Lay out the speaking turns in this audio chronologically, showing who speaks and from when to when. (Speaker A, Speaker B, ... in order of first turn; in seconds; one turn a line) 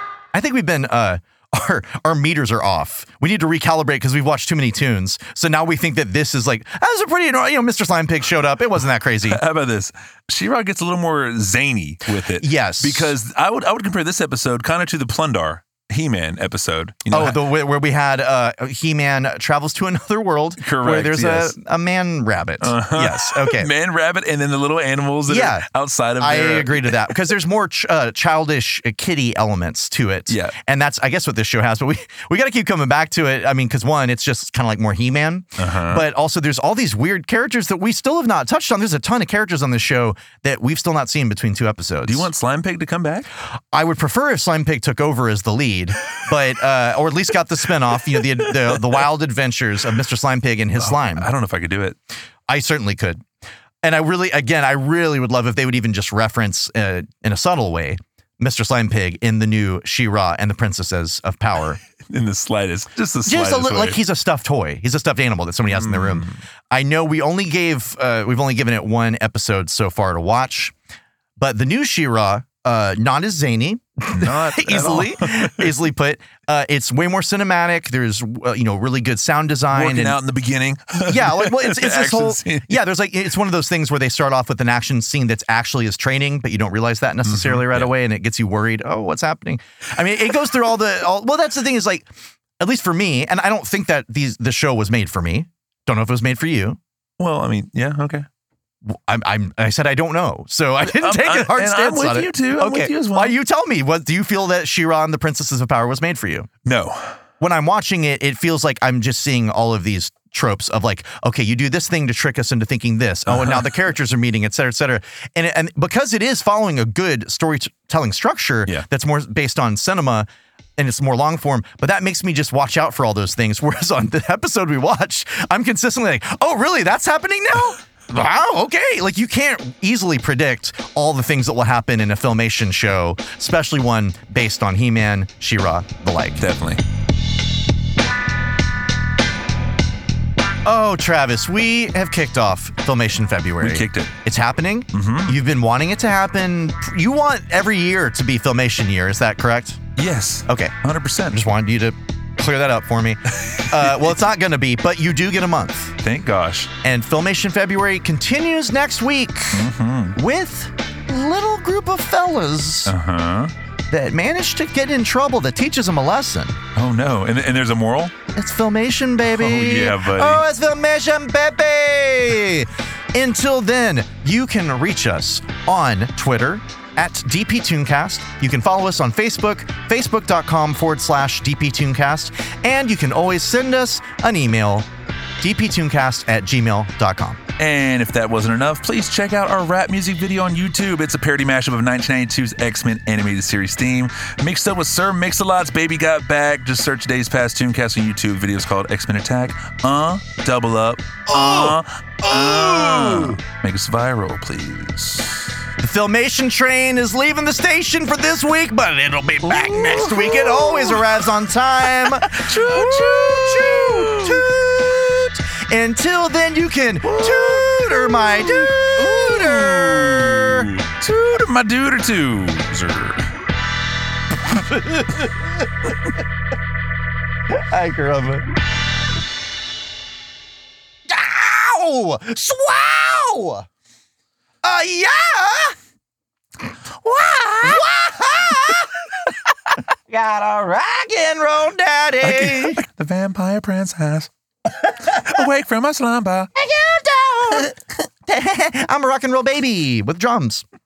Speaker A: 0.3-9.4
Speaker B: 9.2-17.4
Speaker A: 12.4-13.1
Speaker A: 17.1-23.7
Speaker B: 20.6-21.6
Speaker B: 22.6-27.0
Speaker A: 25.3-25.7
Speaker A: 26.2-42.3
Speaker B: 30.3-30.6
Speaker B: 35.6-36.0
Speaker B: 42.0-43.3
Speaker A: 43.7-51.3
Speaker B: 50.8-52.0
Speaker A: 52.5-53.2
Speaker A: 53.8-61.8
Speaker B: 62.1-64.0
Speaker A: 63.2-70.7
Speaker B: 65.7-66.4
Speaker A: 71.4-80.2
Speaker B: 74.1-75.8
Speaker B: 79.7-82.8
Speaker A: 80.9-92.1
Speaker B: 87.2-87.9
Speaker A: 92.6-96.8
Speaker B: 97.2-98.2
Speaker A: 98.8-106.5
Speaker B: 100.8-103.3
Speaker B: 106.6-107.2
Speaker A: 107.4-136.4
Speaker B: 113.3-113.7
Speaker B: 136.4-136.8
Speaker A: 140.6-149.8
Speaker B: 143.6-144.1
Speaker B: 144.9-145.4
Speaker B: 150.0-151.4
Speaker A: 150.5-150.8
Speaker A: 151.3-155.9
Speaker B: 153.7-154.0
Speaker B: 156.0-156.7
Speaker A: 156.8-162.9
Speaker B: 159.5-160.2
Speaker B: 162.8-163.5
Speaker A: 163.9-166.6
Speaker B: 166.7-168.1
Speaker A: 168.3-184.9
Speaker B: 169.2-170.4
Speaker A: 185.4-187.4
Speaker B: 187.6-205.6
Speaker A: 201.3-203.4
Speaker A: 205.8-220.7
Speaker B: 209.4-211.2
Speaker B: 211.8-214.5
Speaker B: 217.0-223.3
Speaker A: 224.5-225.3
Speaker A: 227.5-228.4
Speaker A: 231.1-233.7
Speaker A: 234.6-235.8
Speaker A: 237.0-238.9
Speaker A: 240.1-242.8
Speaker B: 242.2-244.3
Speaker B: 245.0-246.5
Speaker A: 246.5-250.6